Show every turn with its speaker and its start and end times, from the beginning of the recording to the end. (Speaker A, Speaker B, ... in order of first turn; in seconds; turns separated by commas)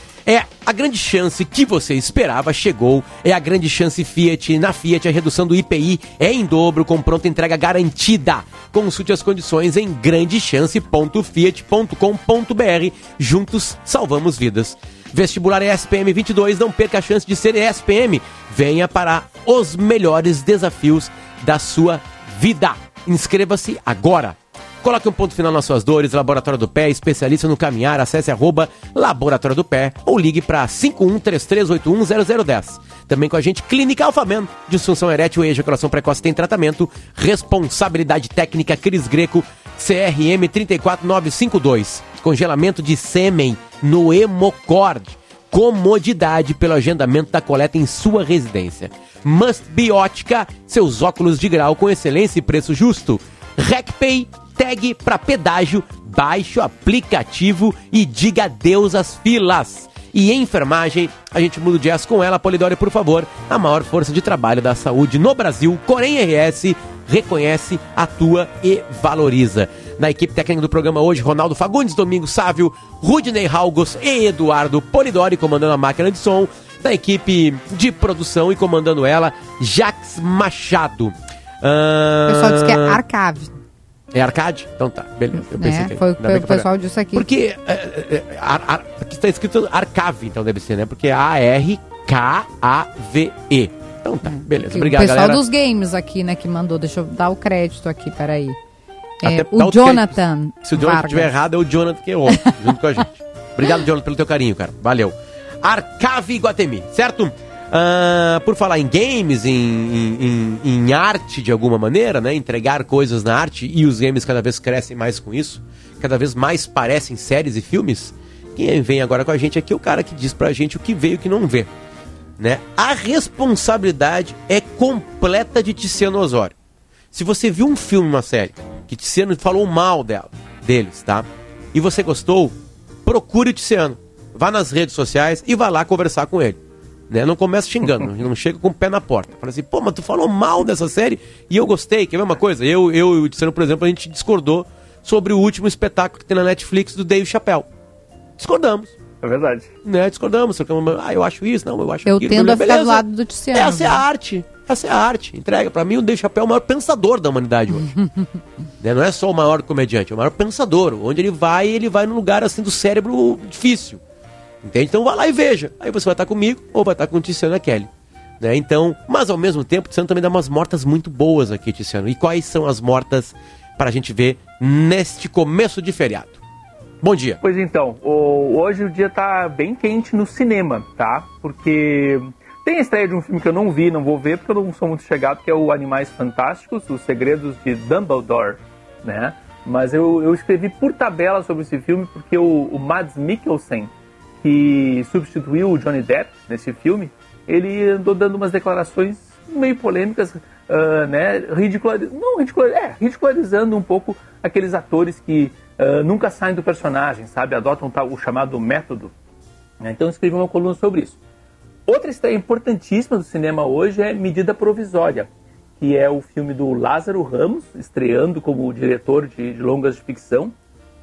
Speaker A: 0.3-83.0, Speaker B: 82.3-83.6, Speaker A: 84.1-95.4, Speaker B: 85.3-87.3, Speaker B: 94.3-98.6, Speaker B: 99.2-101.3, Speaker A: 99.2-121.7, Speaker A: 122.4-126.5, Speaker A: 127.1-136.6, Speaker A: 137.1-147.7, Speaker C: 137.8-138.1, Speaker A: 148.4-148.9, Speaker C: 149.2-149.7, Speaker A: 149.8-157.9, Speaker B: 152.1-154.0, Speaker A: 158.8-164.0, Speaker A: 164.6-167.9, Speaker A: 168.4-176.4, Speaker A: 177.0-177.4, Speaker C: 177.4-209.1, Speaker C: 209.8-211.2, Speaker C: 211.9-220.5